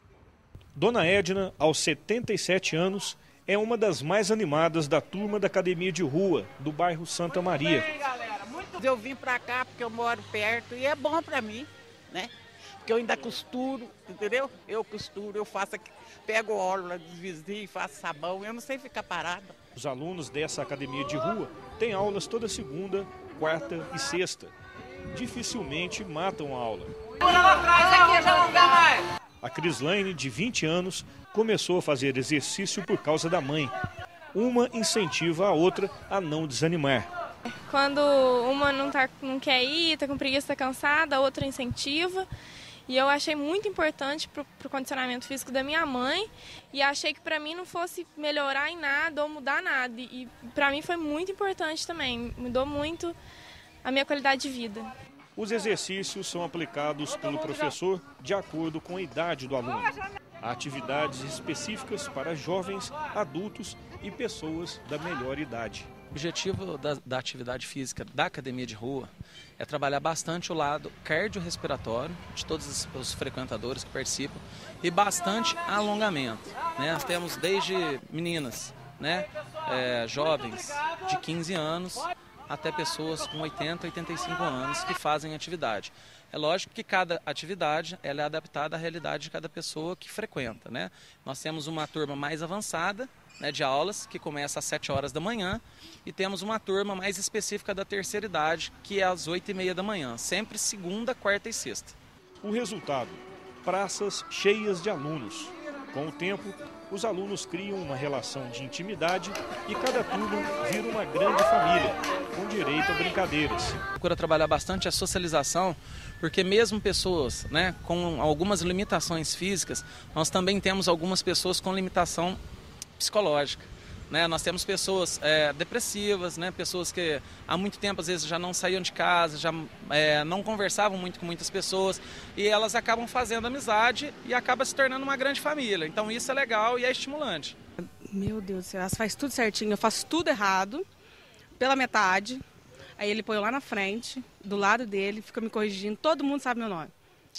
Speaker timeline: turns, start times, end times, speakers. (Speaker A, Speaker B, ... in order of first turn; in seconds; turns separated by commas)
Speaker A: 0.8-7.9, Speaker B: 8.6-12.3, Speaker B: 12.8-19.5, Speaker A: 19.8-24.5, Speaker A: 25.1-26.9, Speaker A: 29.4-33.7, Speaker A: 34.3-37.1, Speaker C: 37.6-42.3, Speaker C: 42.9-53.2, Speaker C: 53.8-54.9, Speaker A: 55.4-65.9, Speaker D: 66.1-101.9, Speaker A: 102.4-113.8, Speaker D: 114.0-122.4, Speaker D: 123.0-137.5, Speaker E: 138.0-140.8, Speaker E: 141.6-142.4, Speaker E: 143.0-146.9